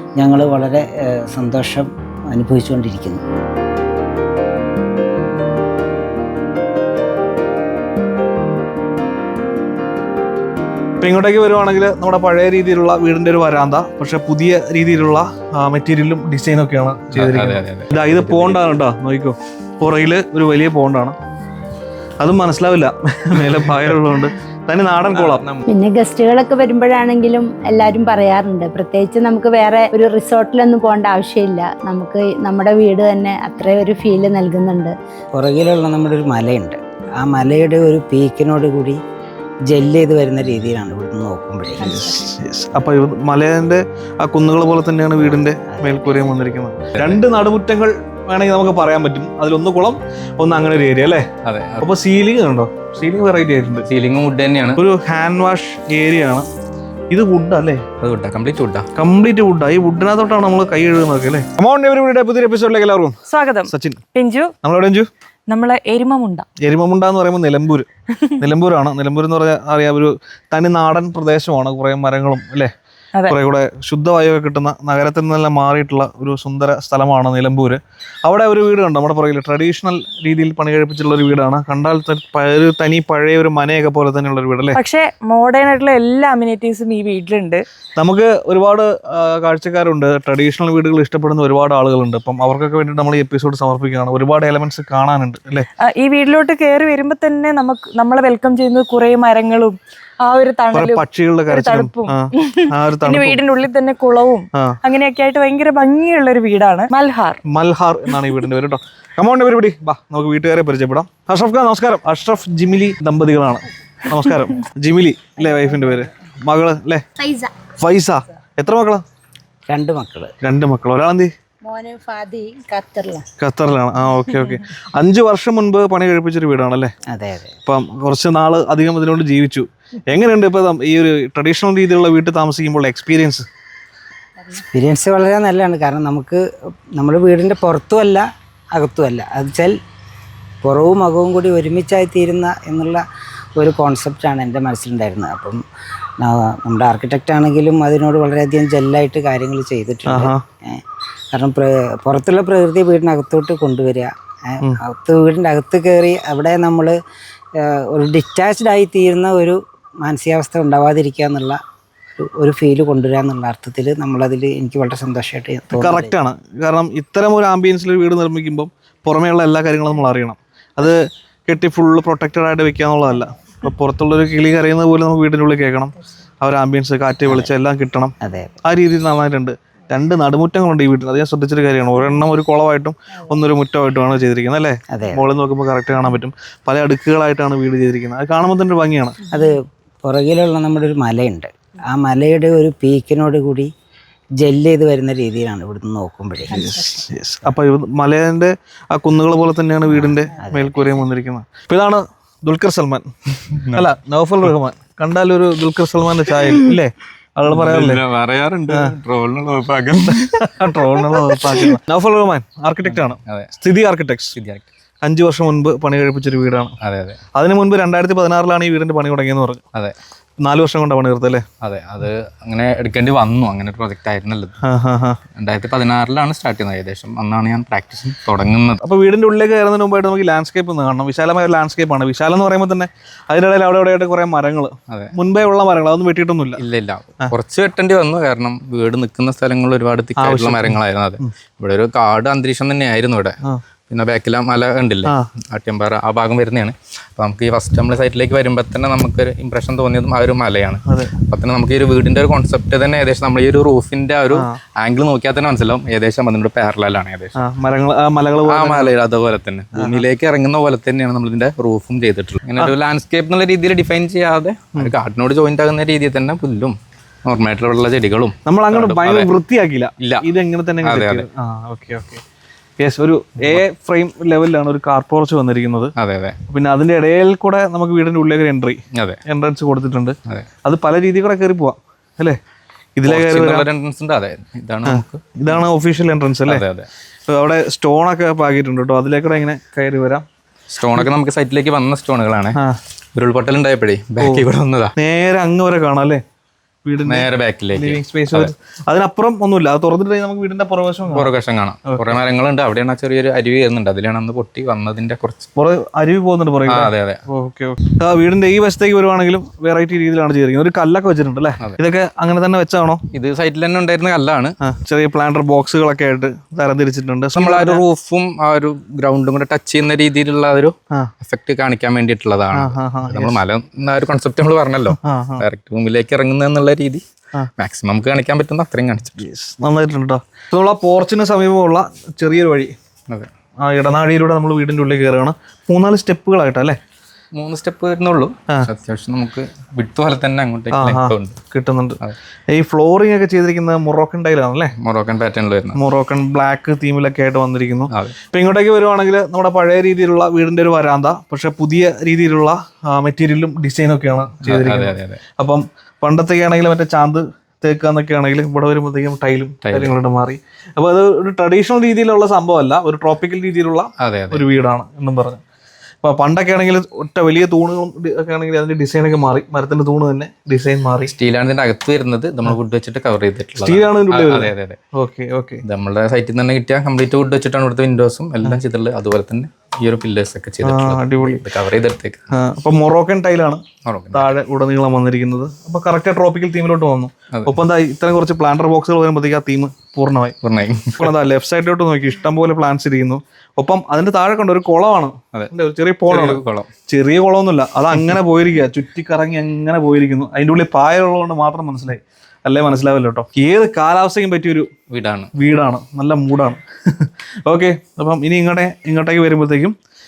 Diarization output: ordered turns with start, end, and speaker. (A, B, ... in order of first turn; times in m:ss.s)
0:00.2-0:03.2 A
0:11.0-0:21.2 B
0:17.1-0:18.5 C
0:22.2-0:25.4 B
0:25.1-0:25.6 C
0:25.7-0:35.0 D
0:35.3-0:39.0 A
0:39.7-0:42.1 A
0:41.8-0:51.3 B
0:45.2-0:46.2 A
0:51.4-0:51.8 C
0:51.8-0:53.9 B
0:53.9-0:54.8 C
0:54.8-0:56.5 B
0:57.1-0:57.9 B
0:58.0-0:58.9 C
0:59.0-1:03.2 B
1:03.3-1:04.5 E
1:03.7-1:04.0 B
1:04.6-1:05.1 B
1:05.5-1:06.5 E
1:06.6-1:07.9 B
1:08.4-1:12.7 B
1:13.3-1:24.8 B
1:24.7-1:27.6 E
1:28.0-1:35.7 B
1:35.9-1:47.4 E
1:40.7-1:43.4 B
1:47.5-1:57.1 B
1:57.2-1:57.6 D
1:57.7-1:59.0 B
1:59.7-2:00.3 A
2:00.4-2:01.3 B
2:01.7-2:03.3 D
2:03.4-2:06.9 B
2:07.1-2:07.6 A
2:07.6-2:13.5 B
2:14.5-2:16.4 A
2:17.0-2:19.8 A
2:20.6-2:23.0 A
2:23.6-2:25.6 A
2:26.2-2:30.8 A
2:30.1-2:30.4 B
2:31.3-2:37.0 A
2:37.6-2:41.6 A
2:42.2-2:46.2 A
2:45.7-3:09.2 B
2:57.3-2:57.5 A
2:58.2-2:58.5 A
3:04.9-3:05.3 A
3:09.3-3:13.7 A
3:14.4-3:16.7 A
3:16.5-3:23.1 B
3:19.9-3:20.9 A
3:23.5-3:23.8 C
3:23.7-3:28.0 B
3:27.5-3:30.6 C
3:30.2-3:34.4 B
3:32.9-3:33.5 C
3:34.4-3:34.7 C
3:35.0-3:36.8 B
3:36.8-3:37.2 C
3:37.3-3:39.6 B
3:40.4-3:41.4 B
3:41.6-3:44.6 C
3:44.6-3:45.2 B
3:45.3-3:48.8 C
3:48.8-3:56.6 B
3:56.6-4:03.4 C
4:00.2-4:01.3 B
4:03.9-4:17.4 C
4:10.9-4:11.1 B
4:14.3-4:14.6 B
4:17.4-4:19.0 B
4:18.5-4:29.3 C
4:19.8-4:20.0 B
4:28.5-4:32.2 B
4:30.0-4:30.3 C
4:30.8-4:31.2 C
4:32.8-4:35.9 B
4:36.0-4:36.4 C
4:36.5-4:42.4 B
4:43.0-4:43.7 B
4:43.1-4:45.2 C
4:44.8-4:46.6 B
4:46.5-4:46.9 C
4:47.3-4:50.2 B
4:50.7-4:52.6 C
4:53.2-4:54.9 C
4:54.2-4:54.5 B
4:55.0-4:56.2 B
4:56.8-5:01.3 B
4:57.1-4:58.5 C
5:01.1-5:05.5 C
5:01.9-5:02.2 B
5:05.6-5:13.0 B
5:06.7-5:07.2 C
5:13.1-5:14.5 C
5:14.6-5:17.8 B
5:17.4-5:27.0 C
5:22.5-5:23.4 B
5:25.0-5:25.4 B
5:27.6-5:29.2 C
5:29.2-5:32.7 B
5:33.6-5:36.8 B
5:37.4-5:41.4 C
5:40.7-5:42.0 B
5:42.5-5:44.8 B
5:44.8-5:45.8 C
5:45.8-6:05.4 B
5:47.9-5:48.2 C
5:54.5-5:55.2 C
5:59.7-5:59.9 C
6:04.0-6:04.4 C
6:06.0-6:11.1 B
6:11.1-6:14.8 C
6:13.6-6:15.6 B
6:15.6-6:22.3 C
6:20.6-6:21.4 B
6:22.3-6:30.4 B
6:23.8-6:24.3 C
6:27.3-6:27.6 C
6:30.4-6:31.0 C
6:31.0-6:44.7 B
6:36.1-6:36.7 C
6:44.9-6:45.3 C
6:45.4-6:49.8 B